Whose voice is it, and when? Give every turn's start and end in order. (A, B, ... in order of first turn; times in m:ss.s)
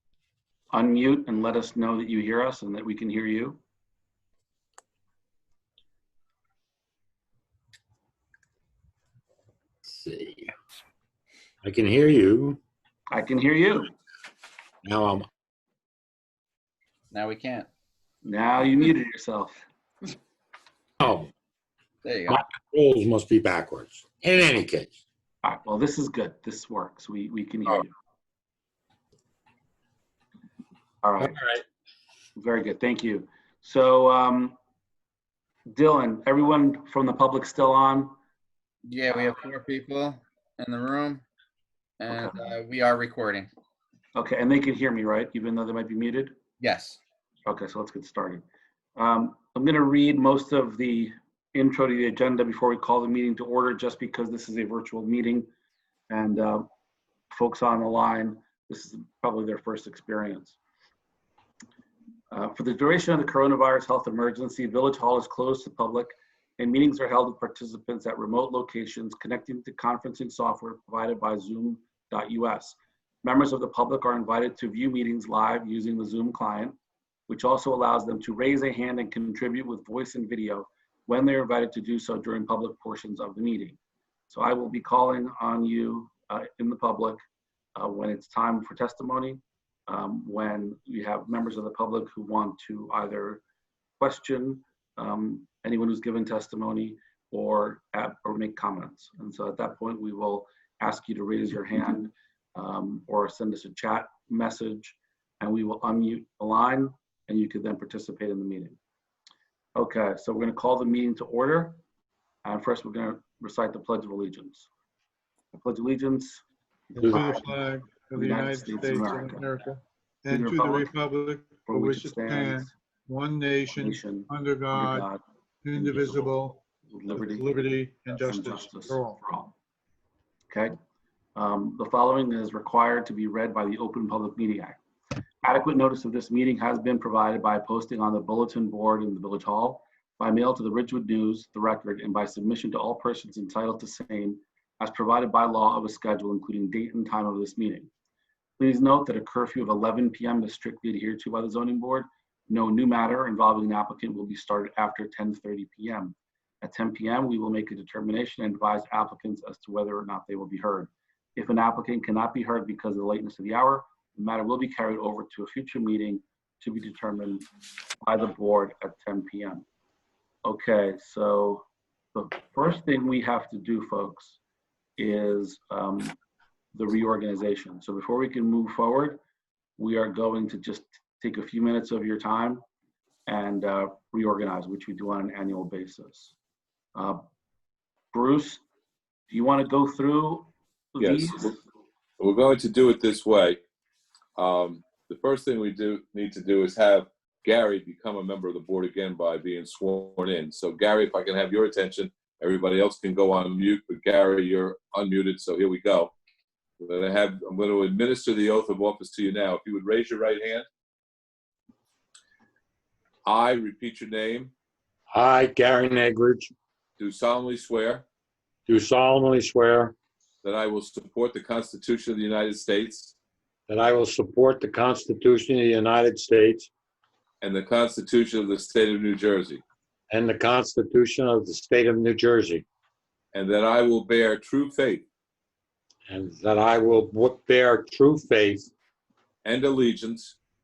0:00.7-0:03.6 A
0:09.9-0:10.5 B
0:11.6-0:12.6 B
0:13.1-0:13.9 A
0:14.8-0:15.3 B
0:17.1-0:17.7 C
0:18.2-0:19.6 A
0:21.0-0:21.3 B
0:22.0-0:22.4 C
0:22.2-0:24.9 B
0:25.4-0:27.9 A
0:31.0-0:31.4 A
0:31.2-0:31.6 B
0:32.4-0:34.6 A
0:35.7-0:38.2 A
0:38.8-0:41.2 C
0:42.0-0:43.5 C
0:44.1-0:46.4 A
0:46.6-0:47.0 C
0:47.4-0:48.4 A
0:49.0-0:55.5 A
0:56.1-0:56.7 A
0:57.3-1:00.6 A
1:02.3-1:16.8 A
1:17.3-1:23.8 A
1:24.3-1:27.2 A
1:27.8-1:33.4 A
1:34.0-1:48.8 A
1:49.8-1:51.8 A
1:52.4-1:54.7 A
1:55.5-1:57.5 A
1:57.0-2:05.1 D
1:58.1-1:59.5 A
2:00.3-2:00.9 A
2:01.7-2:02.7 A
2:03.7-2:05.2 A
2:05.6-2:09.2 D
2:05.7-2:07.5 A
2:08.1-2:09.5 A
2:10.5-2:10.8 A
2:11.4-2:14.8 A
2:15.4-2:27.9 A
2:28.6-2:47.5 A
2:48.0-2:49.6 A
2:50.4-2:54.4 A
2:55.0-2:56.2 A
2:56.7-2:59.2 A
2:59.8-3:02.6 A
3:03.3-3:06.3 A
3:06.9-3:07.2 A
3:08.1-3:08.6 A
3:09.3-3:11.6 A
3:11.0-3:11.5 E
3:12.2-3:13.6 E
3:14.4-3:26.1 E
3:26.8-3:30.6 E
3:33.2-3:34.5 E
3:35.1-3:36.5 B
3:37.0-3:38.0 E
3:38.7-3:39.9 B
3:40.4-3:43.1 E
3:43.7-3:46.7 B
3:47.4-3:49.6 E
3:50.1-3:52.6 B
3:53.3-3:55.0 E
3:56.1-3:58.7 B
3:59.4-4:00.3 E